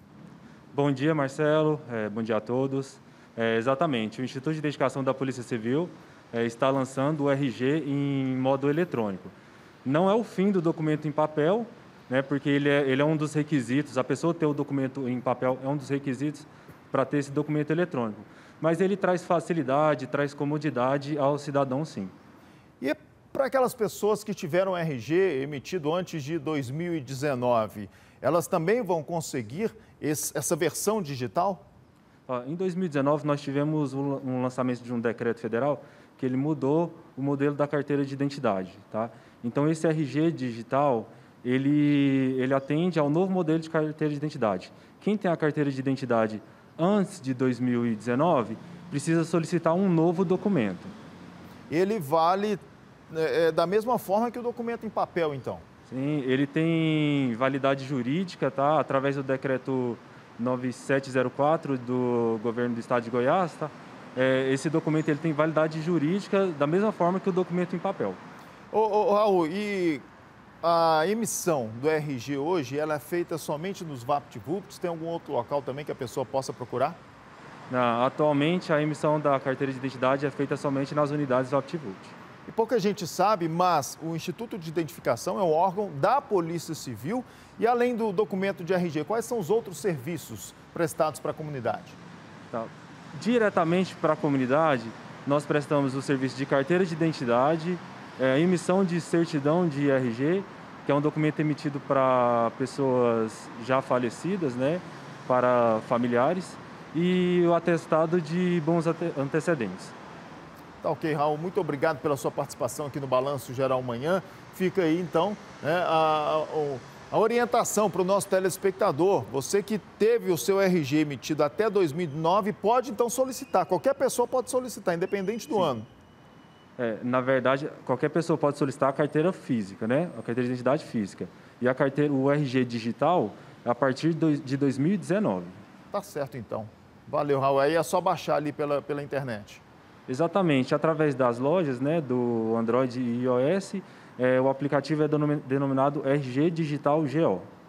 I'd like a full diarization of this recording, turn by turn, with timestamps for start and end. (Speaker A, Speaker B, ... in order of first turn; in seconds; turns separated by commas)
Speaker A: 0.7-22.1, Speaker B: 22.8-31.6, Speaker A: 32.3-50.9, Speaker B: 51.7-55.6, Speaker A: 55.9-68.2, Speaker B: 68.7-70.0, Speaker B: 70.6-77.0, Speaker A: 77.7-82.2, Speaker B: 82.5-92.0, Speaker A: 92.5-109.9, Speaker B: 110.8-125.9, Speaker A: 126.8-135.6, Speaker B: 135.9-139.6, Speaker A: 140.1-147.5